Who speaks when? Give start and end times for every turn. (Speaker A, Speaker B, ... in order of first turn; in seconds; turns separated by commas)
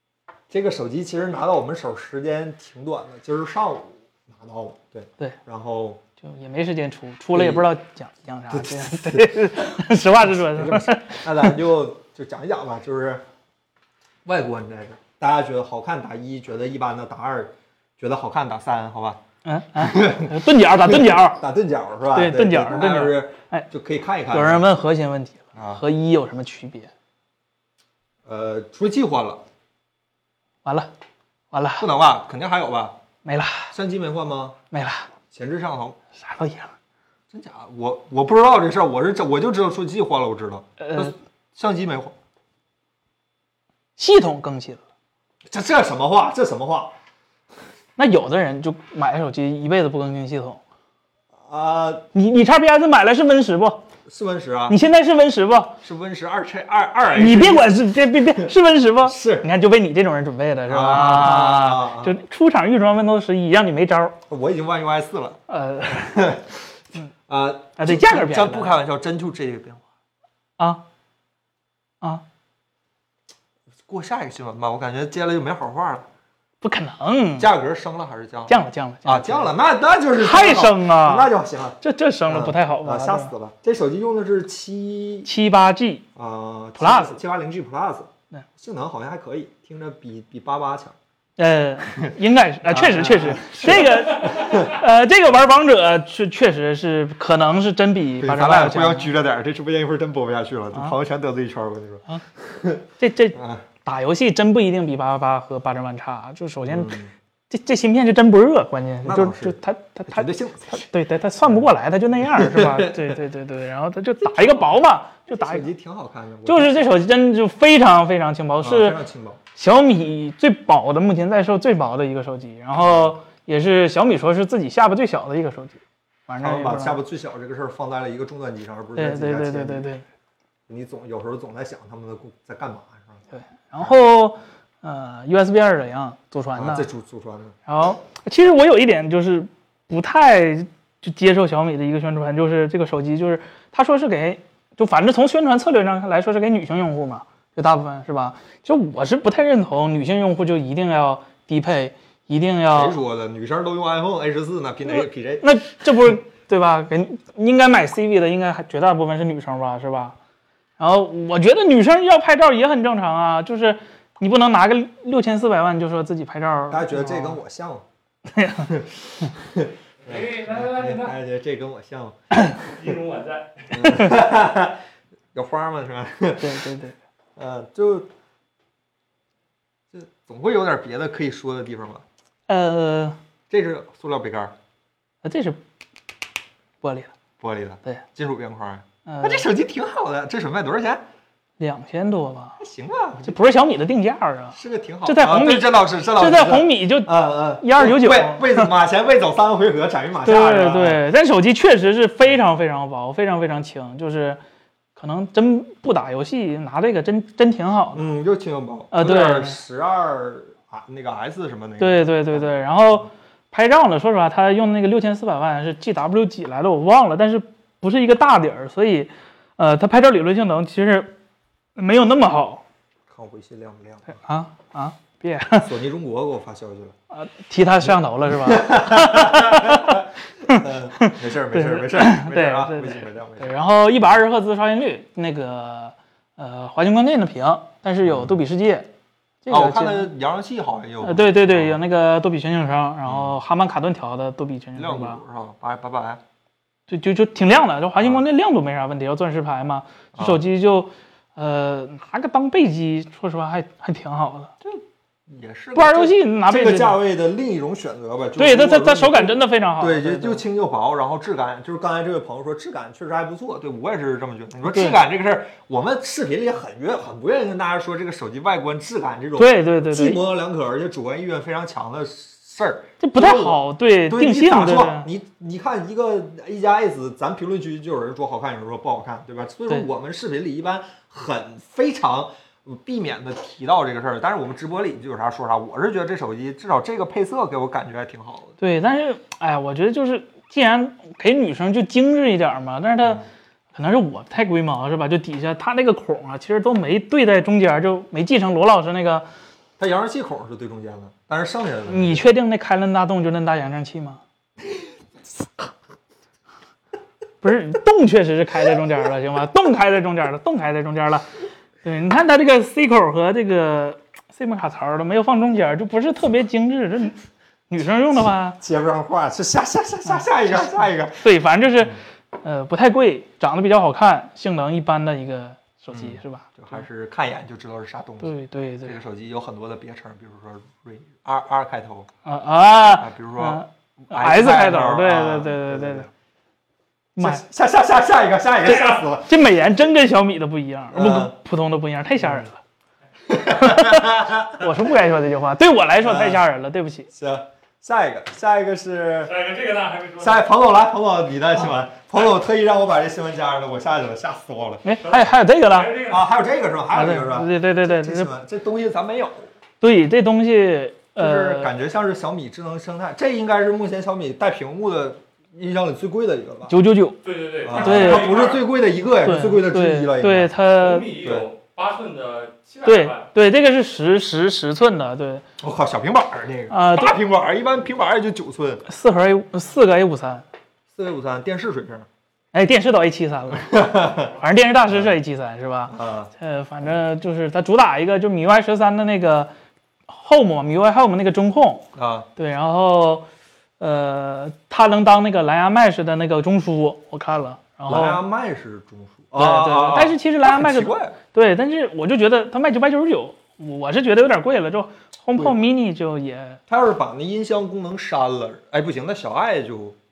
Speaker A: 0.5-6.0, Speaker B: 6.2-11.5, Speaker A: 7.3-7.7, Speaker A: 8.5-9.3, Speaker A: 10.3-13.2, Speaker A: 14.2-19.2, Speaker B: 19.4-21.4, Speaker A: 19.8-24.6, Speaker B: 22.1-23.7, Speaker B: 24.3-26.9, Speaker A: 25.5-25.8, Speaker A: 28.2-29.4, Speaker B: 30.6-30.9, Speaker B: 31.5-31.9, Speaker A: 31.8-33.0, Speaker B: 33.2-33.7, Speaker A: 33.7-34.6, Speaker B: 34.7-35.1, Speaker A: 35.3-36.0, Speaker B: 36.2-36.7, Speaker A: 37.3-42.1, Speaker B: 40.8-41.1, Speaker B: 44.0-44.8, Speaker A: 45.5-46.9, Speaker B: 48.0-50.6, Speaker A: 51.4-52.1, Speaker B: 52.1-53.9, Speaker A: 54.1-54.8, Speaker B: 54.7-55.8, Speaker A: 55.8-58.5, Speaker B: 57.1-64.2, Speaker A: 59.0-59.5, Speaker A: 60.7-62.1, Speaker A: 64.3-66.6, Speaker B: 65.5-66.3, Speaker A: 67.3-69.8, Speaker B: 67.8-68.7, Speaker A: 73.9-76.1, Speaker B: 76.6-77.5, Speaker A: 77.4-85.3, Speaker B: 78.5-79.5, Speaker B: 80.2-83.3, Speaker B: 85.2-86.0, Speaker A: 86.2-91.0, Speaker B: 86.8-87.2, Speaker B: 91.4-99.1, Speaker A: 92.7-94.8, Speaker A: 98.2-103.7, Speaker B: 103.0-107.0, Speaker A: 106.7-107.1, Speaker B: 107.5-115.7, Speaker A: 109.0-109.6, Speaker A: 110.1-110.9, Speaker A: 112.3-113.1, Speaker A: 114.2-114.8, Speaker A: 115.3-116.8, Speaker B: 116.5-119.0, Speaker A: 118.6-119.4, Speaker B: 119.5-127.0, Speaker A: 122.8-123.2, Speaker A: 126.4-129.9, Speaker B: 128.9-130.0, Speaker A: 130.7-133.2, Speaker B: 133.3-136.9, Speaker A: 136.6-137.6, Speaker B: 137.7-153.0, Speaker A: 152.7-155.5, Speaker B: 154.9-160.2, Speaker B: 160.8-167.4, Speaker A: 166.7-167.8, Speaker B: 168.3-169.3, Speaker A: 168.7-172.2, Speaker C: 170.0-171.2, Speaker C: 172.6-173.8, Speaker A: 173.7-174.8, Speaker A: 175.3-176.7, Speaker B: 176.4-176.9, Speaker A: 177.4-178.1, Speaker A: 179.9-182.0, Speaker B: 182.5-183.2, Speaker A: 183.5-184.5, Speaker B: 185.2-185.6, Speaker B: 186.8-187.1, Speaker A: 187.4-191.0, Speaker B: 189.1-189.4, Speaker B: 191.6-192.6, Speaker A: 192.6-193.4, Speaker B: 193.2-198.7, Speaker A: 194.5-201.0, Speaker B: 200.2-204.4, Speaker B: 204.9-208.0, Speaker A: 207.9-213.0, Speaker B: 208.9-209.6, Speaker B: 211.8-221.1, Speaker B: 221.8-222.6, Speaker A: 223.1-224.2, Speaker B: 224.1-225.7, Speaker A: 225.6-226.9, Speaker B: 227.1-238.9, Speaker A: 228.3-233.6, Speaker A: 238.0-238.3, Speaker B: 239.4-240.1, Speaker A: 239.5-241.8, Speaker B: 241.0-245.2, Speaker A: 243.1-243.4, Speaker A: 244.8-246.2, Speaker B: 246.9-254.5, Speaker A: 250.1-250.4, Speaker A: 254.6-288.5, Speaker B: 255.7-257.0, Speaker B: 258.4-260.4, Speaker B: 264.7-265.0, Speaker B: 269.4-270.2, Speaker B: 273.0-275.1, Speaker B: 288.6-299.2, Speaker A: 299.8-302.2, Speaker B: 301.9-304.2, Speaker B: 307.4-311.2, Speaker B: 311.8-317.2, Speaker B: 317.7-318.6, Speaker A: 318.6-321.2, Speaker B: 321.2-326.6, Speaker A: 325.9-332.1, Speaker B: 328.2-329.0, Speaker B: 332.2-336.1, Speaker A: 332.9-336.1, Speaker B: 337.1-337.4, Speaker A: 337.2-339.4, Speaker B: 338.6-342.6, Speaker A: 340.9-341.3, Speaker A: 342.2-342.4, Speaker A: 343.3-344.7, Speaker B: 343.5-347.1, Speaker A: 346.0-346.4, Speaker A: 347.1-349.3, Speaker C: 349.2-350.4, Speaker A: 350.2-354.8, Speaker B: 354.8-355.9, Speaker C: 355.0-356.3, Speaker A: 356.1-359.5, Speaker B: 356.9-358.3, Speaker B: 359.8-361.7, Speaker A: 361.2-366.7, Speaker B: 366.7-367.2, Speaker C: 367.2-368.6, Speaker A: 367.6-370.5, Speaker B: 367.7-368.4, Speaker B: 369.2-371.1, Speaker C: 370.7-373.3, Speaker B: 372.9-375.4, Speaker A: 375.6-378.9, Speaker B: 376.7-377.1, Speaker B: 378.9-380.4, Speaker A: 380.9-382.1, Speaker B: 382.5-389.5, Speaker A: 383.5-384.3, Speaker A: 385.9-386.3, Speaker B: 390.1-391.8, Speaker A: 391.9-392.3, Speaker B: 392.4-393.2, Speaker B: 393.8-398.2, Speaker A: 397.9-401.2, Speaker B: 399.3-406.6, Speaker A: 406.7-410.0